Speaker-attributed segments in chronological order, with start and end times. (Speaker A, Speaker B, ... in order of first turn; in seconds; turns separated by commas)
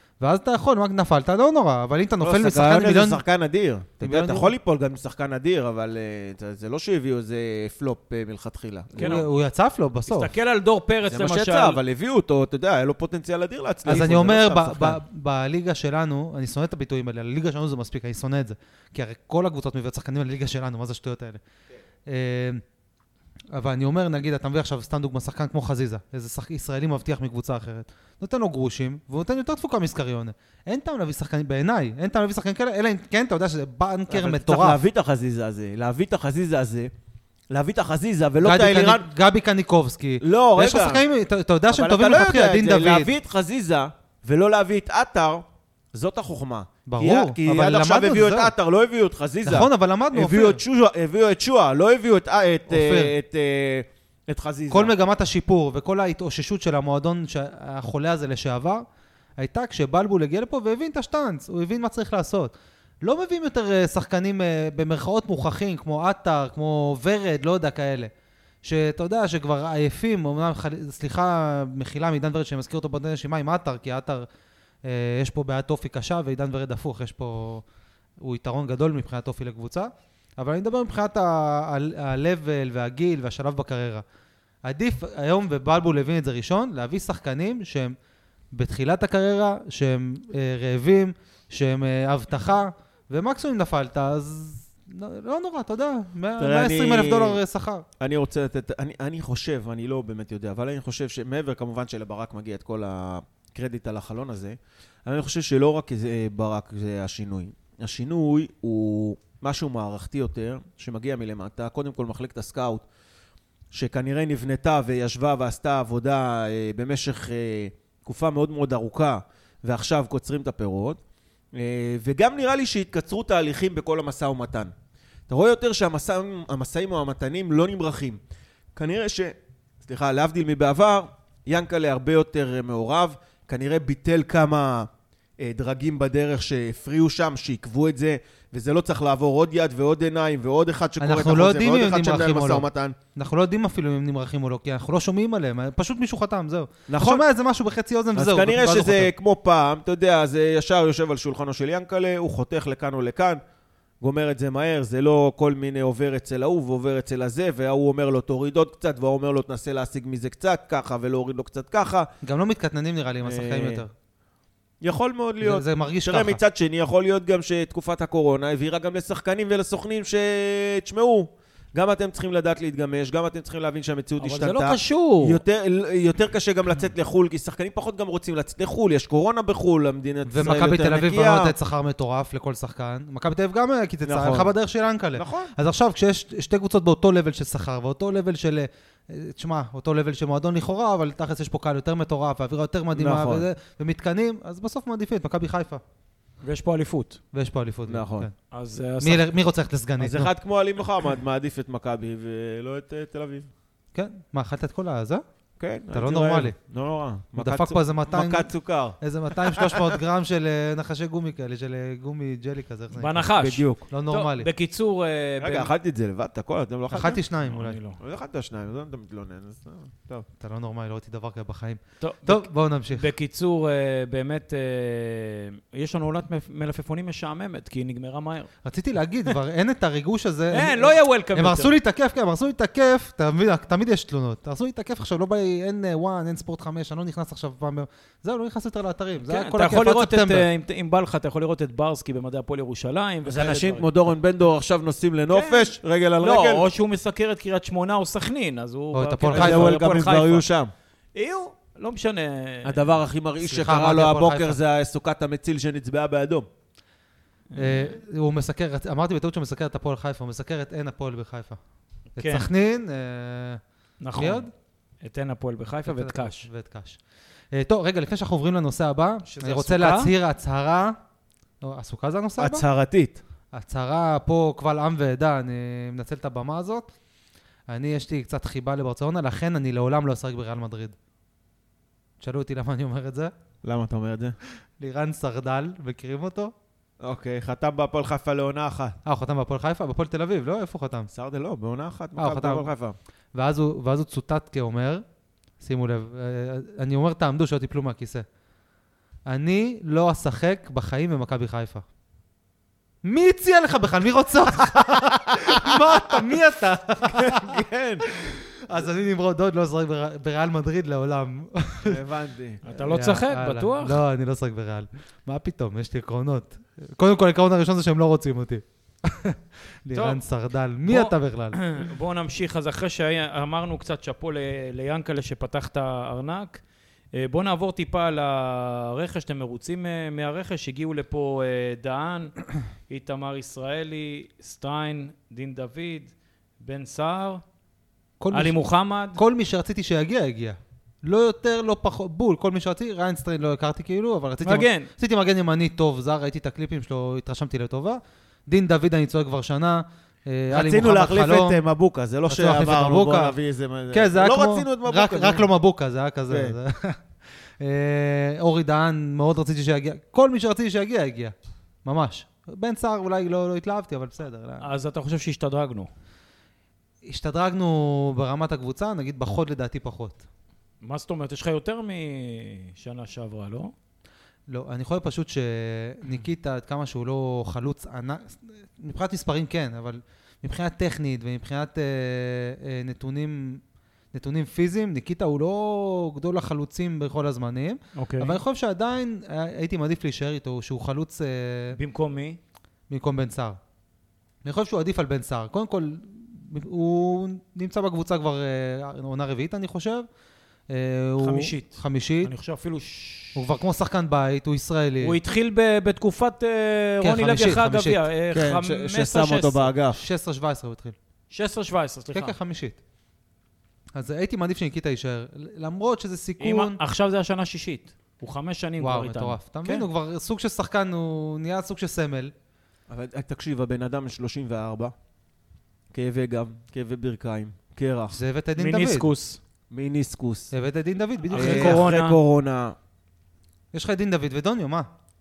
Speaker A: 0.2-3.2, Speaker B: 2.2-9.2, Speaker A: 4.0-4.5, Speaker C: 8.9-9.2, Speaker A: 9.0-10.3, Speaker C: 10.1-11.8, Speaker B: 11.1-15.0, Speaker A: 13.8-21.4, Speaker A: 22.1-22.6, Speaker A: 23.5-34.8, Speaker B: 34.1-36.9, Speaker B: 37.5-39.0, Speaker A: 38.4-43.1, Speaker B: 40.2-41.0, Speaker B: 41.7-54.9, Speaker A: 46.9-48.5, Speaker A: 49.4-50.6, Speaker A: 52.7-53.1, Speaker A: 54.7-58.8, Speaker A: 59.4-68.1, Speaker A: 68.6-74.2, Speaker A: 74.8-77.6, Speaker A: 78.2-84.0, Speaker A: 84.6-87.9, Speaker A: 88.5-97.8, Speaker B: 96.4-97.4, Speaker B: 98.0-112.8, Speaker B: 113.7-121.0, Speaker B: 121.5-124.7, Speaker B: 125.3-128.2, Speaker B: 128.7-134.9, Speaker B: 135.4-143.0, Speaker A: 141.0-149.1, Speaker B: 146.9-147.2, Speaker B: 148.1-153.4, Speaker B: 154.0-162.1, Speaker A: 162.2-163.9, Speaker B: 163.2-163.8, Speaker B: 164.8-181.5, Speaker A: 165.4-166.4, Speaker C: 174.2-175.4, Speaker A: 180.3-195.8, Speaker B: 184.0-184.5, Speaker B: 185.2-185.5, Speaker B: 192.9-193.4, Speaker C: 196.4-197.2, Speaker A: 197.3-198.3, Speaker B: 197.9-198.3, Speaker C: 198.5-199.3, Speaker A: 199.0-200.3, Speaker B: 200.0-203.5, Speaker A: 203.9-205.2, Speaker B: 205.6-210.0, Speaker A: 205.9-206.5, Speaker A: 207.3-213.3, Speaker C: 212.9-215.7, Speaker B: 213.4-213.8, Speaker A: 213.9-214.5, Speaker B: 215.4-217.2, Speaker A: 216.9-217.8, Speaker C: 217.4-218.0, Speaker B: 218.0-220.2, Speaker A: 220.4-223.1, Speaker C: 222.0-228.5, Speaker A: 228.6-240.5, Speaker C: 230.5-231.7, Speaker C: 239.2-243.9, Speaker B: 243.2-246.7, Speaker C: 245.3-250.4, Speaker A: 248.9-249.8, Speaker B: 249.3-250.7, Speaker C: 251.1-252.8, Speaker B: 252.6-256.4, Speaker A: 253.4-254.6, Speaker C: 257.5-257.9, Speaker A: 257.6-261.6, Speaker C: 262.2-262.5, Speaker A: 262.2-263.6, Speaker C: 264.0-264.5, Speaker A: 264.1-264.5, Speaker C: 265.0-266.5, Speaker A: 265.9-267.0, Speaker A: 267.5-271.0, Speaker C: 269.2-270.1, Speaker A: 271.6-272.6, Speaker B: 272.4-273.2, Speaker A: 273.5-276.9, Speaker A: 277.7-280.9, Speaker A: 282.2-283.3, Speaker B: 283.6-284.4, Speaker A: 284.8-286.5, Speaker B: 287.0-289.0, Speaker A: 289.0-291.1, Speaker B: 291.1-292.9, Speaker A: 292.2-292.7, Speaker A: 293.3-295.0, Speaker A: 295.6-298.2, Speaker A: 299.3-301.8, Speaker A: 303.0-312.0, Speaker B: 305.5-305.9, Speaker B: 307.0-308.2, Speaker B: 311.8-312.6, Speaker C: 312.6-314.0, Speaker A: 312.8-321.6, Speaker C: 319.9-320.2, Speaker C: 320.8-326.6, Speaker C: 327.1-332.3, Speaker C: 332.9-337.4, Speaker A: 338.2-338.6, Speaker C: 338.3-339.2, Speaker A: 339.1-351.6, Speaker C: 344.4-344.9, Speaker B: 350.5-355.5, Speaker A: 352.3-353.3, Speaker A: 353.9-357.0, Speaker B: 356.3-356.6, Speaker A: 357.6-361.3, Speaker A: 361.8-364.7, Speaker C: 364.6-365.9, Speaker A: 367.0-370.2, Speaker C: 370.8-373.7, Speaker A: 374.5-383.6, Speaker A: 384.1-391.8, Speaker C: 387.9-388.4, Speaker C: 391.7-392.4, Speaker A: 392.9-393.6, Speaker A: 394.4-400.1, Speaker A: 400.7-402.3, Speaker C: 401.2-403.4, Speaker A: 403.3-405.2, Speaker C: 405.0-409.7, Speaker A: 407.0-408.0, Speaker B: 408.3-410.0, Speaker A: 409.9-410.9, Speaker C: 411.3-412.3, Speaker A: 412.1-412.8, Speaker A: 413.9-416.8, Speaker C: 416.4-419.9, Speaker A: 418.8-422.3, Speaker B: 422.9-424.9, Speaker B: 425.9-428.2, Speaker A: 428.1-429.1, Speaker C: 428.6-429.4, Speaker B: 429.7-430.5, Speaker A: 430.5-431.9, Speaker C: 431.3-432.2, Speaker B: 431.3-432.7, Speaker A: 433.7-434.9